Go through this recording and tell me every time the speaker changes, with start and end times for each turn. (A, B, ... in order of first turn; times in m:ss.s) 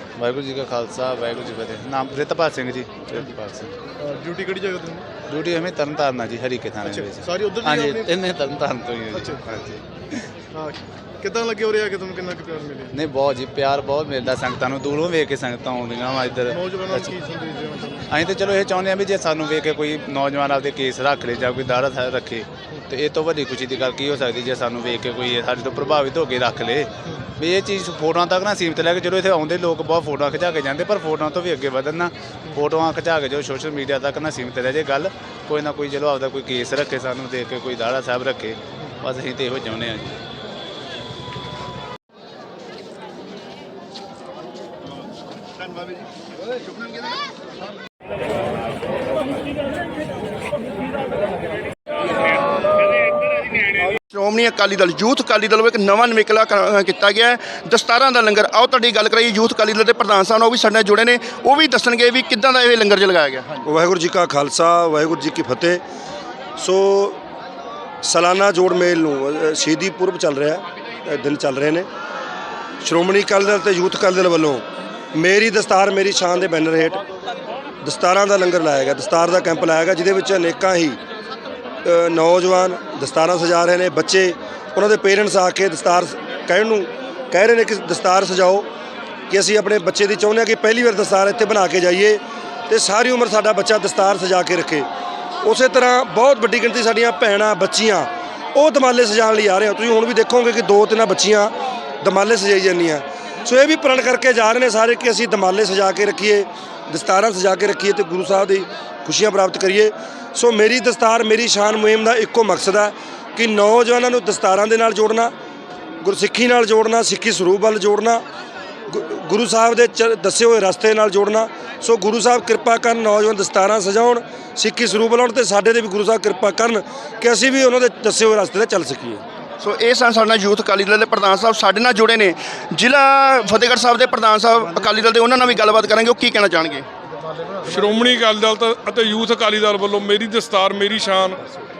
0:00.2-0:03.7 A
0:04.0-0:05.0 B
0:05.3-0:09.8 A
0:06.8-0:08.1 B
0:09.1-0:09.4 B
0:10.5-0:12.9 B
0:12.9-0:17.1 A
0:16.5-0:18.0 B
0:18.1-0:40.2 A
0:45.7-0:46.0 C
0:54.1-1:03.6 C
1:03.6-1:05.8 D
1:06.6-1:07.2 D
1:08.0-1:11.9 D
1:12.8-1:14.6 D
1:15.1-1:17.0 D
1:17.8-1:21.0 D
1:21.8-1:28.7 D
1:29.3-1:34.9 D
1:35.4-1:41.5 D
1:42.0-1:55.3 D
1:56.0-1:58.2 D
1:58.9-2:09.2 D
2:09.6-2:16.8 C
2:17.6-2:21.4 E